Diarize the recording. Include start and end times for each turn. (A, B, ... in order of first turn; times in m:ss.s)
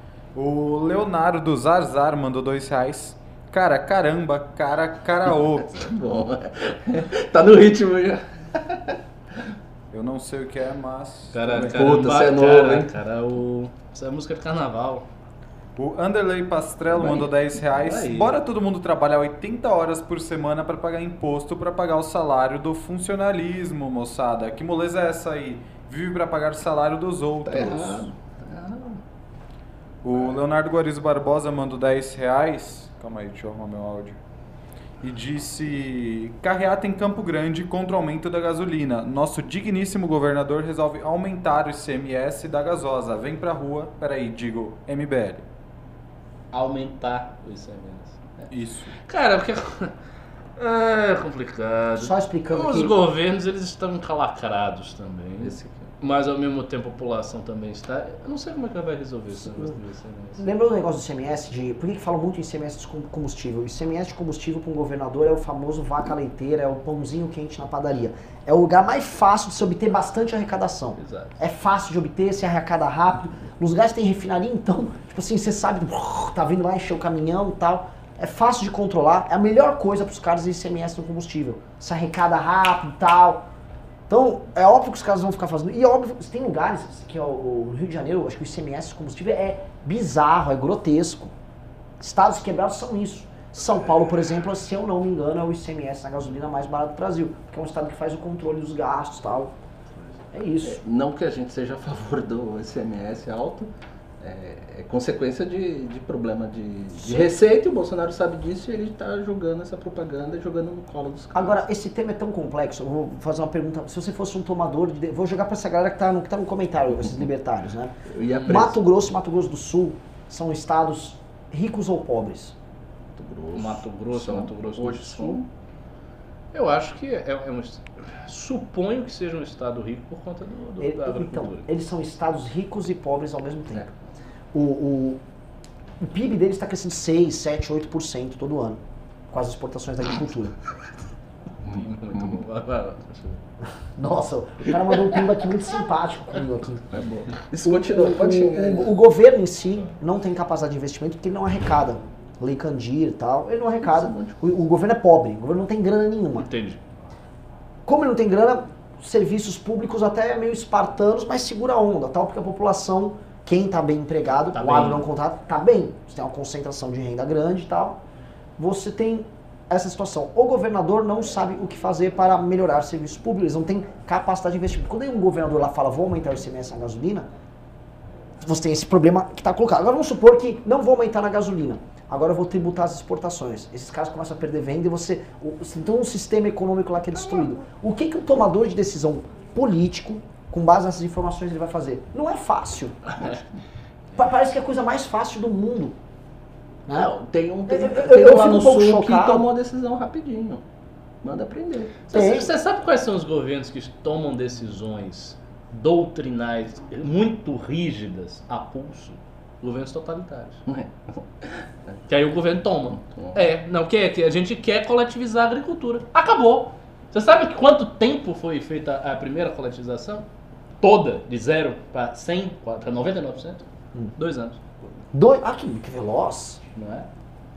0:00.3-0:05.9 A
0:05.3-0:09.0 B
0:09.9-0:11.8 A
0:11.3-0:15.0 C
0:11.5-0:12.9 B
0:15.8-0:28.1 A
0:16.9-0:18.4 C
0:27.4-0:29.0 B
0:30.0-0:34.2 A
0:35.0-0:45.4 A
0:46.5-0:48.5 C
0:48.5-0:48.9 A
0:49.0-0:49.9 C
0:50.6-1:00.4 C
0:52.0-0:52.9 D
0:55.4-0:55.9 B
1:00.4-1:23.4 D
1:11.0-1:11.4 C
1:24.1-1:31.3 D
1:32.0-1:39.5 D
1:40.3-1:40.8 D
1:40.6-1:43.7 B
1:44.2-1:51.6 B
1:47.0-1:47.3 D
1:51.3-1:57.9 D
1:58.1-1:58.8 B
1:58.4-2:02.5 D
2:03.2-2:05.5 B
2:03.5-2:05.4 C
2:06.5-2:11.7 C
2:10.8-2:13.8 D
2:14.5-2:15.2 D
2:16.0-2:20.6 D
2:21.6-2:23.4 C
2:21.6-2:22.4 B
2:24.0-2:27.0 D
2:26.9-2:28.9 B
2:27.6-2:36.5 D
2:33.8-2:34.4 B
2:36.4-2:36.9 C
2:37.8-2:48.0 D
2:44.5-2:45.1 C
2:48.6-2:57.3 D
2:58.4-3:13.1 D
3:07.2-3:07.5 B
3:14.1-3:16.0 D
3:16.9-3:20.6 B
3:17.7-3:19.5 D
3:21.2-3:22.0 B
3:22.1-3:30.6 C
3:22.1-3:22.5 D
3:30.6-3:31.9 B
3:32.1-3:40.2 C
3:32.9-3:33.4 B
3:40.8-3:44.9 C
3:45.1-3:46.6 D
3:46.8-3:47.1 C